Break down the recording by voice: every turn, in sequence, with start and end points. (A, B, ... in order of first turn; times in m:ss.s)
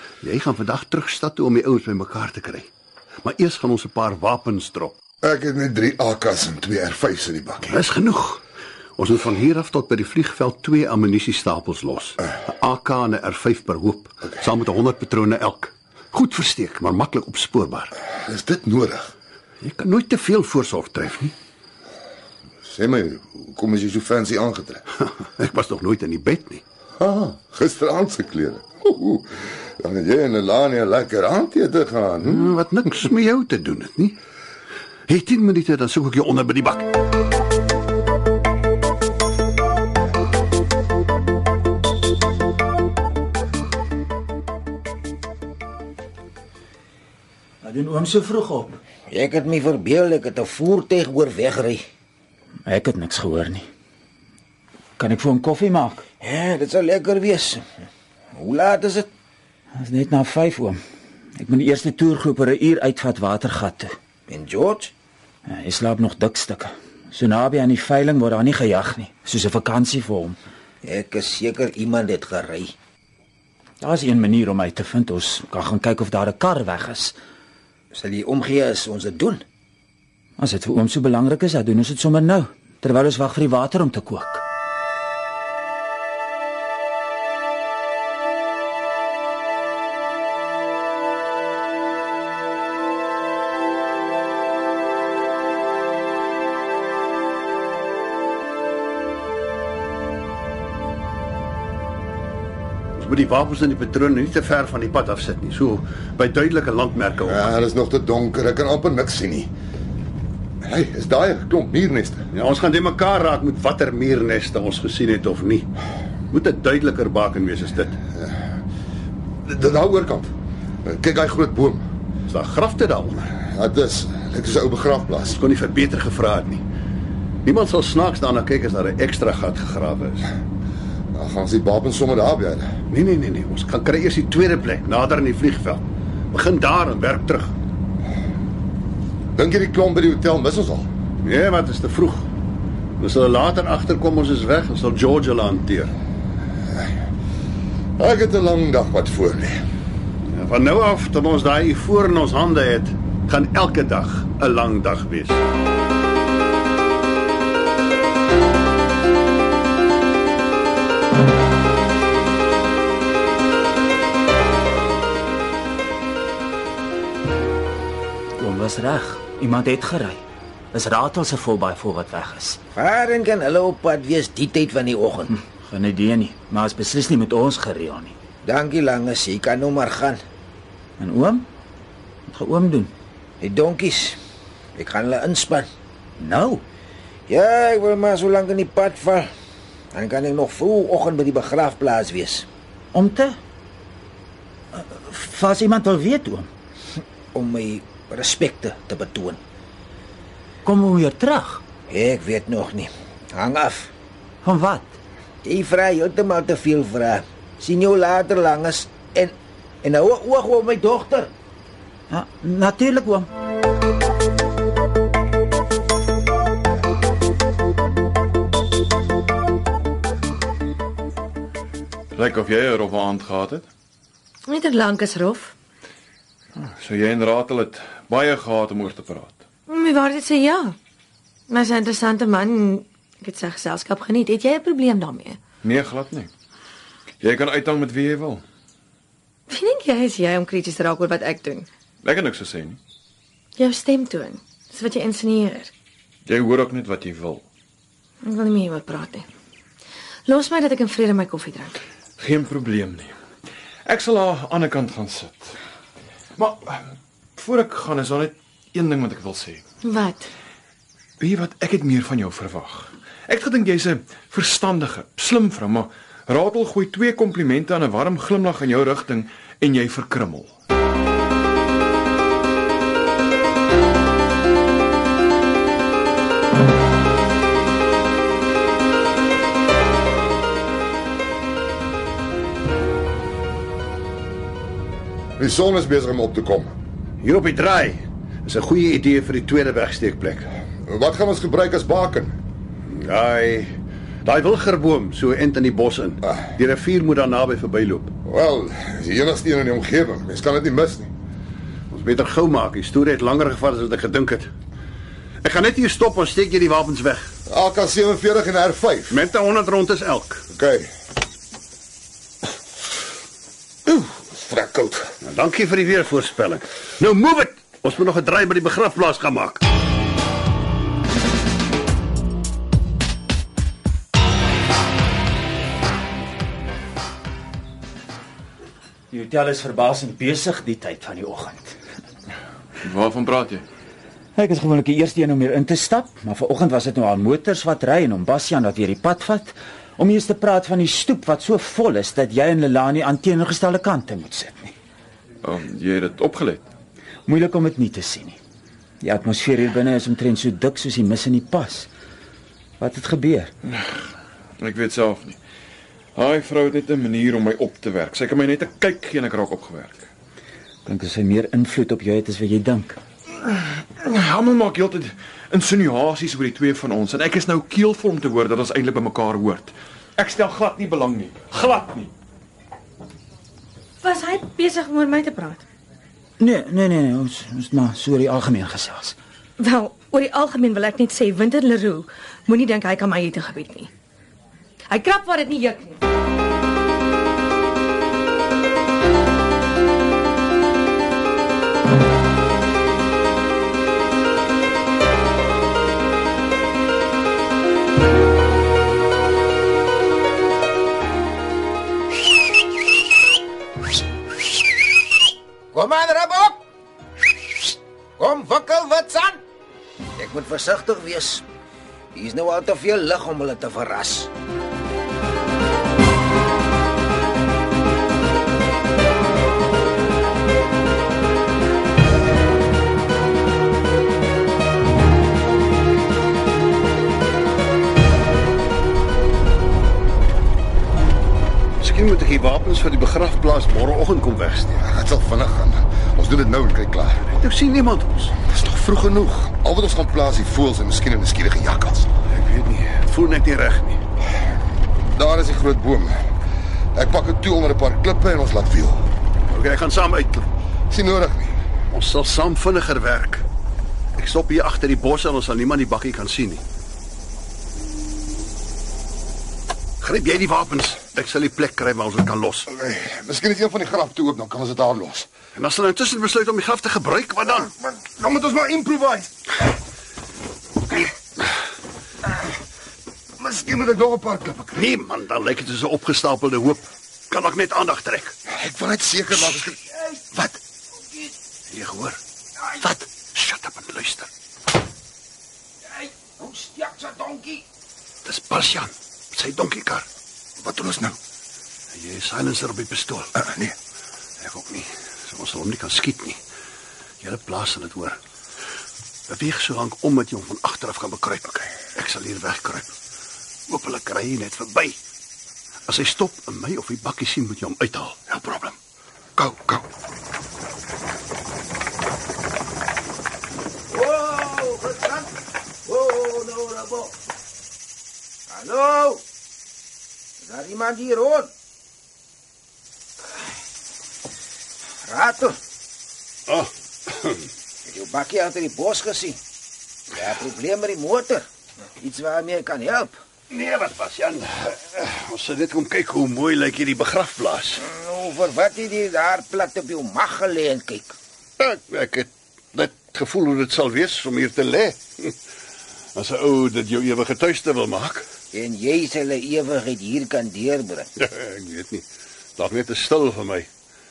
0:00.2-0:02.7 A
0:03.2-0:05.0 A
0:05.2-0:07.8 B
0:07.7-0:08.4 A
0:09.0-0:17.9 A
0:18.2-0:19.1 B
0:19.6-0:21.3 A
0:22.6-0:24.8 B
0:25.0-0:26.6 A
0:27.0-0:32.5 B
0:32.2-0:34.2 A
0:35.1-0:36.9 A
0:47.6-0:48.8 C
0:49.1-0:51.8 D
0:52.6-0:53.6 C
0:55.0-0:56.0 C
0:56.2-0:59.1 D
0:59.8-1:00.8 C
1:01.4-1:03.9 C
1:04.3-1:04.9 D
1:05.5-1:10.4 C
1:10.8-1:12.7 D
1:13.8-1:17.2 C
1:17.9-1:19.4 D
1:20.4-1:24.4 C
1:43.0-1:47.7 A
1:47.3-1:49.5 B
1:50.6-1:52.2 B
1:52.3-1:55.7 A
1:56.3-1:58.0 A
1:59.4-2:00.3 B
2:00.8-2:01.8 B
2:02.3-2:03.3 A
2:03.4-2:05.4 B
2:05.2-2:06.6 A
2:07.4-2:10.3 A
2:11.1-2:12.7 B
2:12.9-2:17.5 A
2:19.4-2:20.9 B
2:21.2-2:22.2 A
2:23.0-2:25.9 A
2:28.0-2:29.6 B
2:30.3-2:35.4 A
2:48.4-2:50.2 C
2:50.7-2:52.6 C
2:52.8-2:55.4 D
2:55.6-2:58.1 C
2:58.4-3:00.2 D
3:01.0-3:01.4 C
3:02.3-3:02.9 C
3:03.4-3:04.2 D
3:04.8-3:05.7 D
3:06.2-3:06.6 C
3:07.3-3:09.3 D
3:09.9-3:12.5 D
3:12.9-3:13.4 C
3:14.7-3:16.5 C
3:17.3-3:19.4 D
3:20.6-3:21.6 C
3:21.9-3:23.9 D
3:24.4-3:25.0 C
3:25.4-3:31.3 D
3:32.1-3:33.3 C
3:42.1-3:43.7 E
3:44.4-3:45.5 F
3:46.5-3:49.4 E
3:49.7-3:50.8 F
3:51.5-3:55.4 F
3:55.6-3:56.3 E
3:57.2-3:58.4 E
3:59.5-4:01.7 F
4:02.0-4:02.8 E
4:03.6-4:05.7 F
4:06.2-4:07.4 E
4:08.2-4:09.3 F
4:10.2-4:11.8 F
4:12.2-4:13.1 E
4:13.8-4:15.5 E
4:16.4-4:19.6 E
4:19.8-4:20.3 F
4:21.2-4:30.5 E
4:45.4-4:46.7 B
4:47.2-4:50.5 A
4:50.8-4:52.3 B
4:52.9-4:53.7 A
4:54.2-4:58.1 A
4:58.2-5:01.1 B
5:01.9-5:04.5 A
5:05.4-5:07.3 A
5:07.5-5:09.2 B
5:09.1-5:10.4 A
5:10.5-5:10.9 B
5:13.9-5:15.1 B
5:15.2-5:19.6 A
5:29.1-5:31.7 C
5:32.8-5:33.6 E
5:34.4-5:44.7 C
5:45.4-5:46.6 E
5:47.3-5:48.4 C
5:49.0-5:51.9 C
5:52.8-5:53.5 C
5:53.7-5:54.0 E
5:54.6-5:55.4 E
5:56.1-6:00.1 E
6:00.8-6:03.0 C
6:03.4-6:12.1 E
6:14.0-6:15.6 F
6:16.4-6:19.2 C
6:19.6-6:23.9 F
6:24.9-6:26.0 F
6:45.7-6:46.6 D
6:48.2-6:49.4 D
6:50.2-6:51.4 D
6:52.1-6:54.3 D
7:11.8-7:14.8 A
7:14.8-7:17.2 B
7:17.2-7:18.3 A
7:18.5-7:22.1 B
7:22.3-7:24.0 A
7:25.1-7:26.2 B
7:26.9-7:29.1 B
7:29.5-7:30.5 A
7:30.9-7:31.6 B
7:31.9-7:33.4 A
7:34.2-7:36.6 A
7:40.0-7:42.7 A
7:42.7-7:45.3 B
7:45.5-7:47.7 A
7:47.9-7:49.4 B
7:53.4-7:54.9 B
7:54.7-7:58.3 A
7:58.5-7:59.8 B
8:00.3-8:00.6 B
8:01.7-8:02.2 A
8:02.8-8:04.3 A
8:05.9-8:07.6 D
8:08.2-8:10.1 A
8:10.6-8:11.2 B
8:11.9-8:13.3 A
8:13.5-8:13.7 B
8:14.4-8:16.4 A
8:17.2-8:18.2 A
8:19.3-8:22.9 A
8:23.7-8:25.0 A
8:25.9-8:28.7 A
8:33.9-8:35.3 D
8:35.8-8:37.1 D
8:38.5-8:39.2 D
8:40.4-8:41.5 D
8:45.0-8:45.6 D
8:46.5-8:47.4 A
8:47.8-8:49.4 D
8:50.1-8:51.5 D
8:52.0-8:53.2 D
8:53.5-8:57.8 A
8:57.8-9:01.2 D
9:01.6-9:05.3 A
9:06.1-9:08.2 A
9:08.5-9:11.1 D
9:11.2-9:12.0 A
9:12.6-9:13.7 A